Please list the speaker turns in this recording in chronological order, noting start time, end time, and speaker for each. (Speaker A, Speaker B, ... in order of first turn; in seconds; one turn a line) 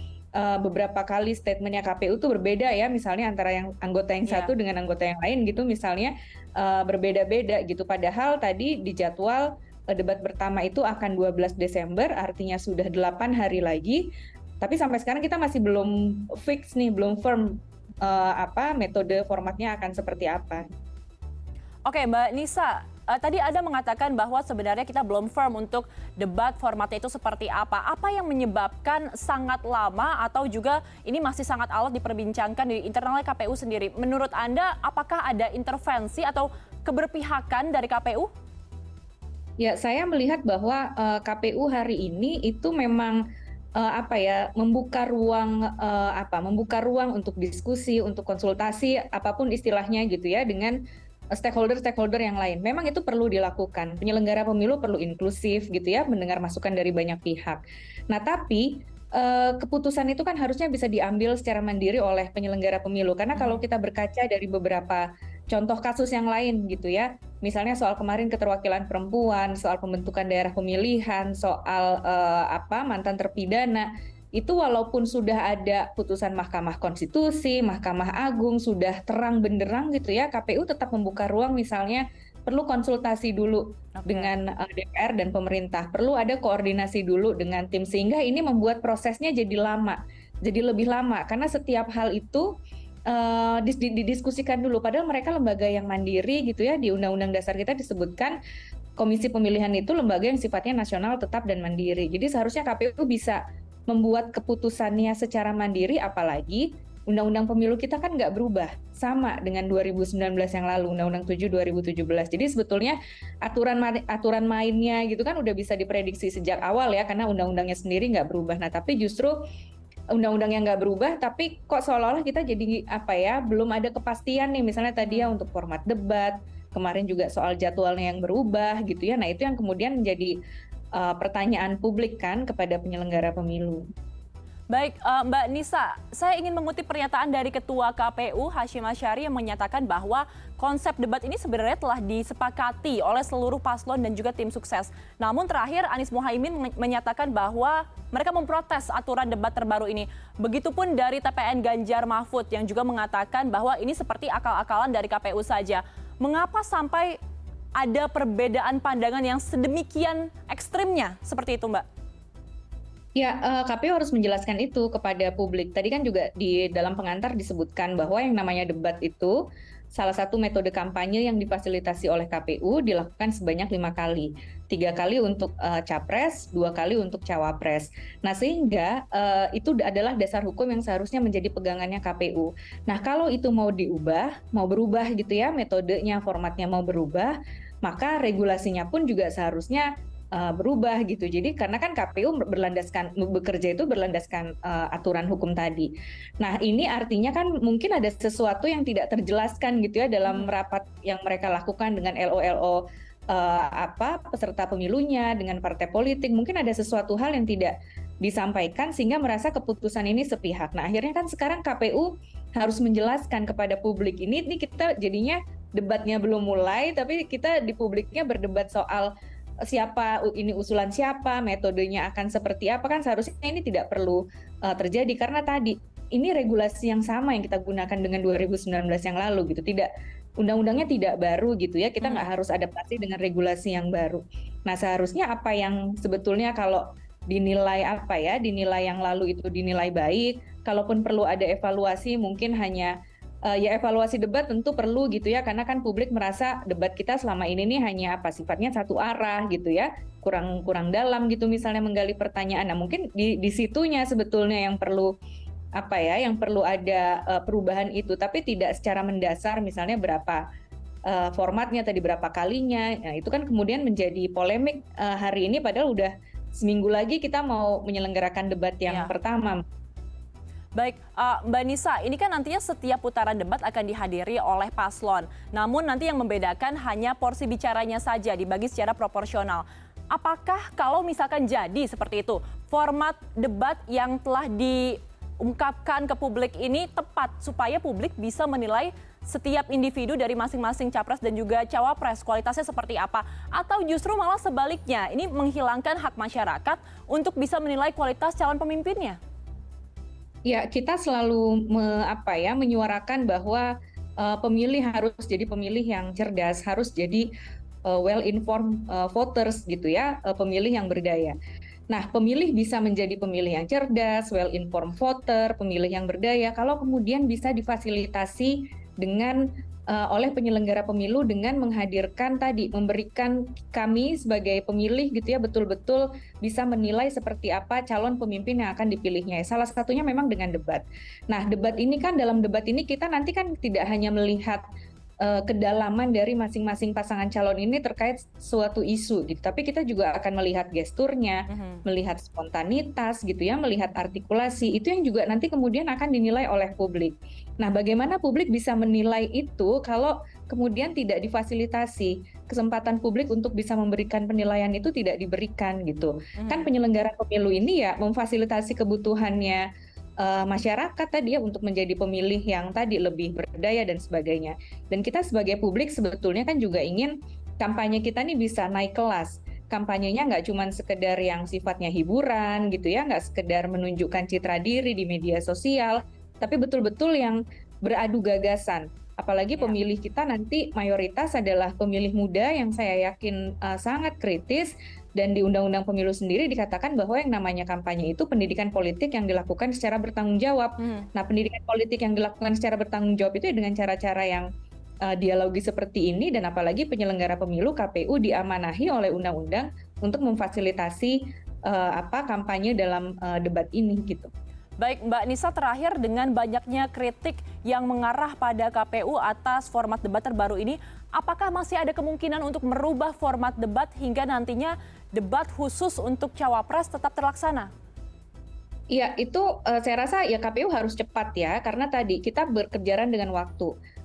Speaker A: 0.3-14.1
Speaker B: 4.3-4.5
Speaker A: 14.6-20.7
Speaker B: 21.9-38.3
Speaker A: 39.6-43.2
Speaker A: 43.8-50.8
Speaker A: 51.3-92.5
Speaker B: 63.4-63.6
Speaker B: 84.0-84.3
Speaker A: 93.1-98.4
Speaker A: 99.0-119.4
Speaker A: 120.1-130.3
Speaker B: 125.1-125.3
Speaker A: 130.9-133.8
Speaker B: 134.7-157.2
Speaker B: 157.8-161.9
Speaker A: 163.2-169.4
Speaker A: 169.9-195.9
Speaker A: 196.4-219.1
Speaker A: 219.7-229.9
Speaker A: 230.4-242.9
Speaker B: 232.0-232.3
Speaker A: 243.4-255.1
Speaker A: 255.8-260.4
Speaker A: 261.1-269.6
Speaker B: 270.8-299.2
Speaker A: 300.5-307.3
Speaker A: 307.9-311.4
Speaker A: 311.9-334.6
Speaker A: 335.2-359.7
Speaker B: 341.5-341.8
Speaker B: 356.4-356.7
Speaker A: 360.2-394.5
Speaker A: 395.1-404.3
Speaker B: 404.8-417.7
Speaker A: 418.9-423.7